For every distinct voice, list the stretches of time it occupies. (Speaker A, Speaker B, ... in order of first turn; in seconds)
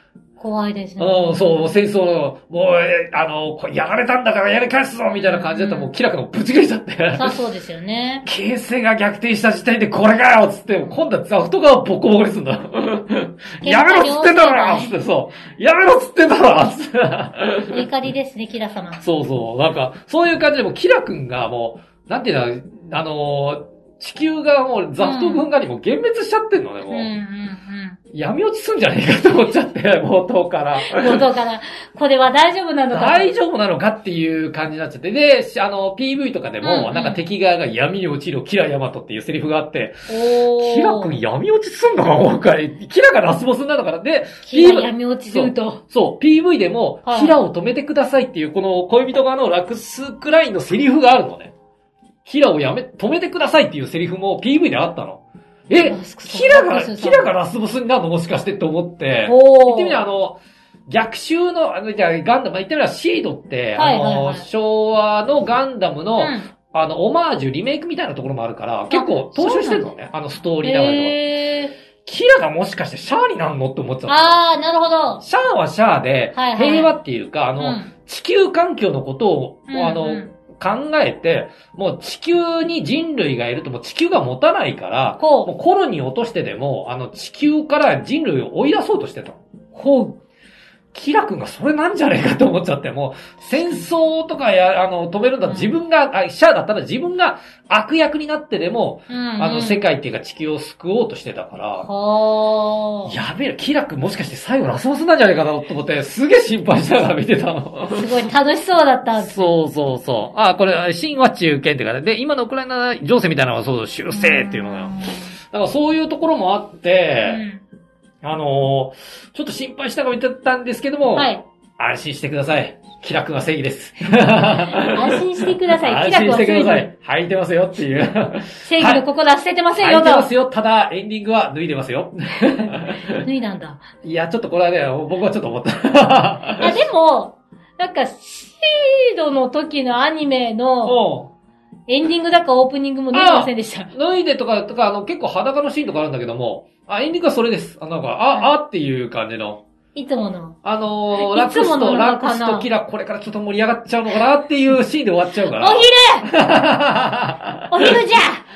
Speaker A: 0.4-1.7, 5.1-5.9, 7.1-8.2, 13.6-14.9, 17.7-19.1, 25.0-25.5, 26.9-28.0, 30.8-33.3, 36.6-37.2, 40.1-41.1, 44.5-45.8, 47.1-47.4, 55.8-57.3, 59.2-60.0, 63.8-64.5, 66.2-66.5, 68.9-69.9, 70.6-71.7, 74.1-75.2, 76.3-76.9, 77.6-77.9, 79.7-80.3, 85.2-85.5, 95.5-95.7, 99.1-99.8, 101.8-103.1, 107.9-109.5, 114.1-115.3, 117.2-117.6, 121.1-121.4, 124.7-126.9, 128.6-130.3, 133.1-133.8, 136.6-141.0, 141.9-143.9, 149.9-150.6, 151.2-152.7, 155.5-156.3, 157.7-158.4
Speaker B: 1.0-7.3, 8.3-17.9, 19.0-27.1, 28.1-31.2, 32.9-40.1, 40.6-51.5, 52.2-71.2, 72.1-74.4, 75.2-90.2, 90.9-101.9, 103.1-108.0, 109.1-115.0, 115.5-117.4, 118.2-129.0, 129.8-133.2, 134.0-136.8, 140.8-141.3, 143.1-149.6, 150.6-158.0